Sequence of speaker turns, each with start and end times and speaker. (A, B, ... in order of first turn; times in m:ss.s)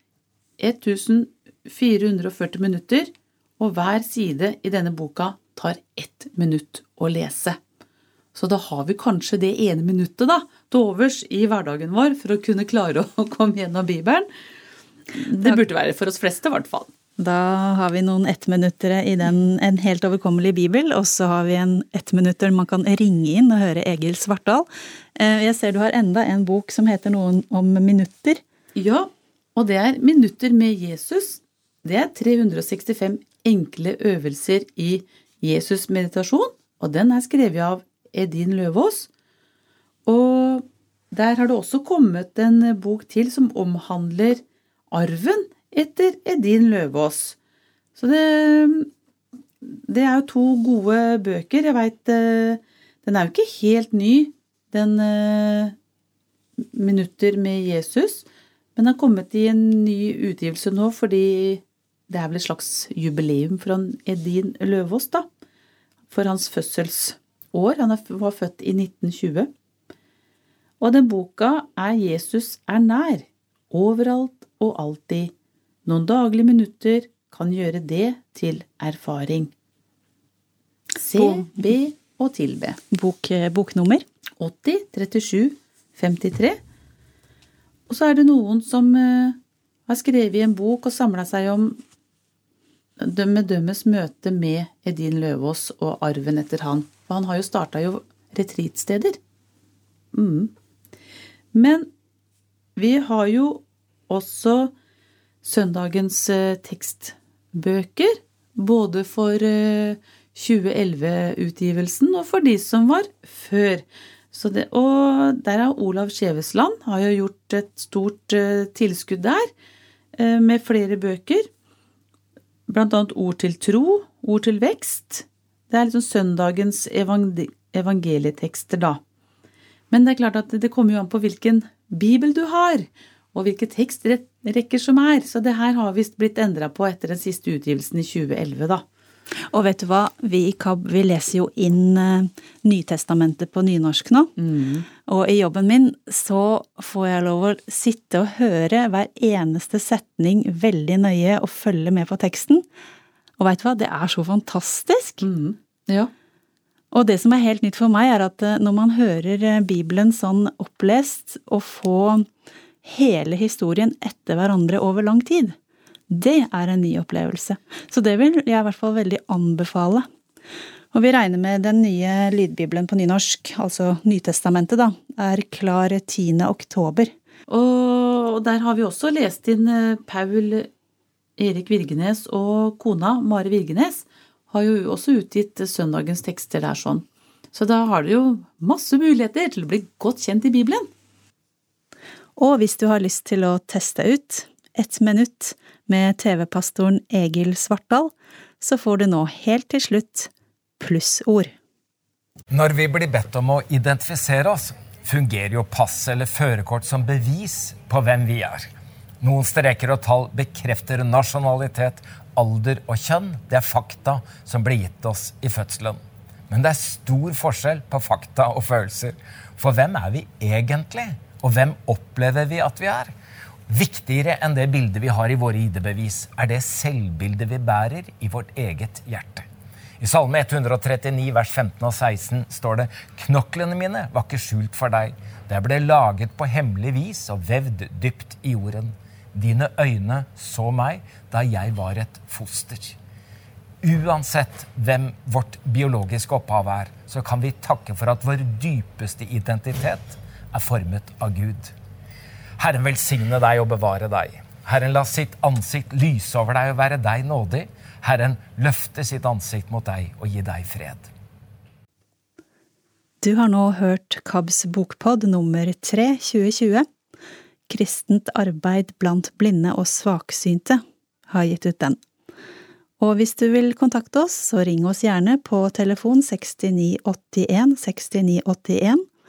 0:00.6-0:07.6 A
0:08.4-0:14.3 A
0:15.1-0:16.9 A
0:17.2-0:28.4 B
0:28.8-0:39.1 A
0:40.1-0:47.4 A
0:48.0-0:48.9 A
0:49.6-0:55.8 A
0:56.6-0:58.2 A
0:58.8-1:05.3 A
1:06.1-1:09.5 A
1:10.8-1:15.3 A
1:15.9-1:19.5 A
1:21.0-1:22.8 A
1:21.2-1:21.7 B
1:22.9-1:24.0 B
1:24.4-1:26.6 A
1:27.9-1:31.8 A
1:33.0-1:39.2 A
1:40.1-1:40.5 A
1:41.5-1:41.9 A
1:42.8-1:44.7 A
1:45.4-1:59.5 A
2:00.2-2:01.5 A
2:02.7-2:09.0 A
2:09.9-2:18.8 A
2:19.5-2:24.3 B
2:24.4-2:24.9 A
2:25.0-2:32.6 B
2:33.4-2:35.2 B
2:35.2-2:36.1 A
2:36.9-2:42.3 B
2:42.8-2:45.6 B
2:46.1-2:50.1 B
2:50.9-2:57.1 B
2:57.5-3:00.7 A
3:01.4-3:10.9 A
3:12.4-3:21.5 B
3:22.5-3:28.7 C
3:29.2-3:43.1 C
3:43.7-3:49.5 C
3:50.0-4:03.0 C
4:03.8-4:11.7 C
4:12.6-4:21.1 C
4:23.2-4:26.9 B
4:27.7-4:32.0 B
4:33.0-4:39.0 B